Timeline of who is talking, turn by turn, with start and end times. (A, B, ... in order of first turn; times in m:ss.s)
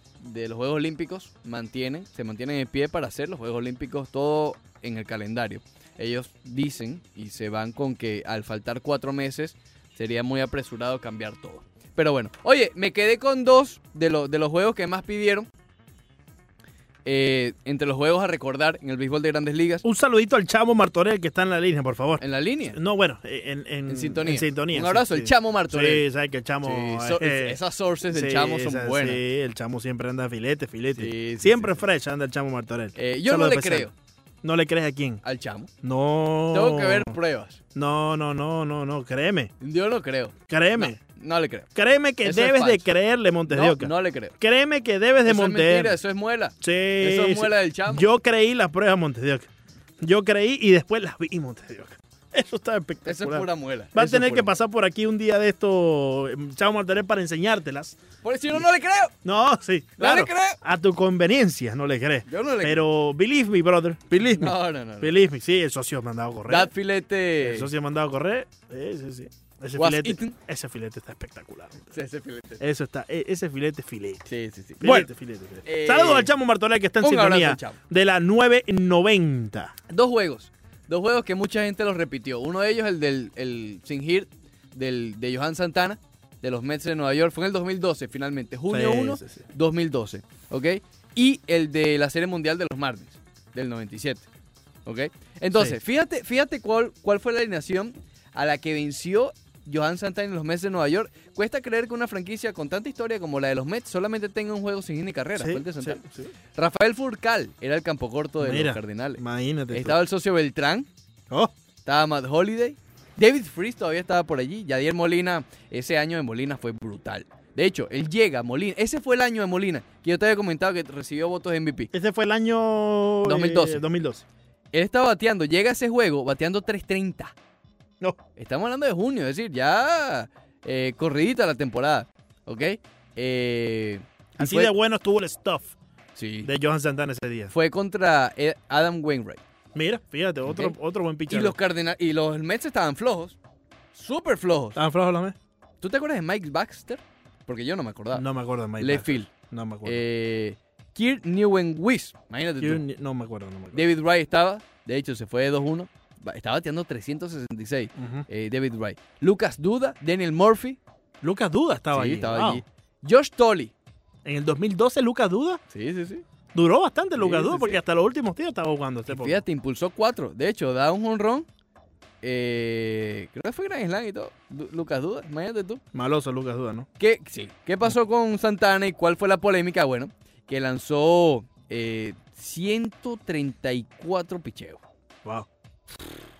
0:00.2-0:15.5 A
0:17.0-0:19.8 A
0:19.8-0:22.2 B
0:22.2-0:22.8 A
0:22.7-0:27.6 B
0:23.9-0:26.0 A
0:26.6-0:29.2 A
0:28.1-0:33.9 B
0:31.0-0:31.8 A
0:33.0-0:33.9 A
0:34.4-0:35.2 B
0:35.2-0:35.7 A
0:35.8-0:37.2 B
0:36.5-0:37.6 A
0:37.7-0:39.5 B
0:39.6-0:41.7 A
0:40.5-0:41.0 B
0:41.7-0:46.0 B
0:42.2-0:42.9 A
0:43.5-0:44.3 A
0:45.2-0:48.1 A
0:46.6-0:49.5 B
0:50.0-0:58.0 B
0:53.0-0:54.5 A
0:58.2-0:59.1 A
0:59.2-1:06.7 B
1:00.0-1:00.6 A
1:02.3-1:02.8 A
1:04.2-1:05.2 A
1:06.5-1:07.7 A
1:07.4-1:11.9 B
1:09.8-1:10.4 A
1:11.9-1:12.6 A
1:12.6-1:14.2 B
1:14.2-1:15.1 A
1:14.8-1:19.7 B
1:15.6-1:16.3 A
1:17.0-1:17.8 A
1:19.9-1:34.3 A
1:28.7-1:29.4 B
1:34.8-1:46.0 A
1:45.4-1:46.3 B
1:46.5-1:50.9 A
1:48.4-1:50.0 B
1:51.8-2:01.9 A
2:01.9-2:04.2 B
2:03.2-2:03.8 A
2:04.7-2:07.3 A
2:08.4-2:14.7 A
2:14.4-2:15.7 B
2:16.2-2:16.5 A
2:16.4-2:17.5 B
2:17.5-2:19.4 A
2:19.7-2:21.6 B
2:20.4-2:20.8 A
2:21.3-2:23.4 A
2:23.9-2:24.8 A
2:24.7-2:25.3 B
2:25.8-2:28.2 A
2:28.1-2:30.0 B
2:28.8-2:29.3 A
2:29.8-2:32.8 A
2:32.6-2:33.8 B
2:33.7-2:40.8 A
2:38.0-2:38.2 B
2:41.2-2:42.6 B
2:41.9-2:43.7 A
2:44.2-2:45.6 B
2:45.7-2:46.2 A
2:46.5-2:49.4 B
2:47.2-2:47.8 A
2:49.1-2:51.5 A
2:52.2-2:55.8 A
2:55.9-2:56.9 B
2:57.0-3:04.8 A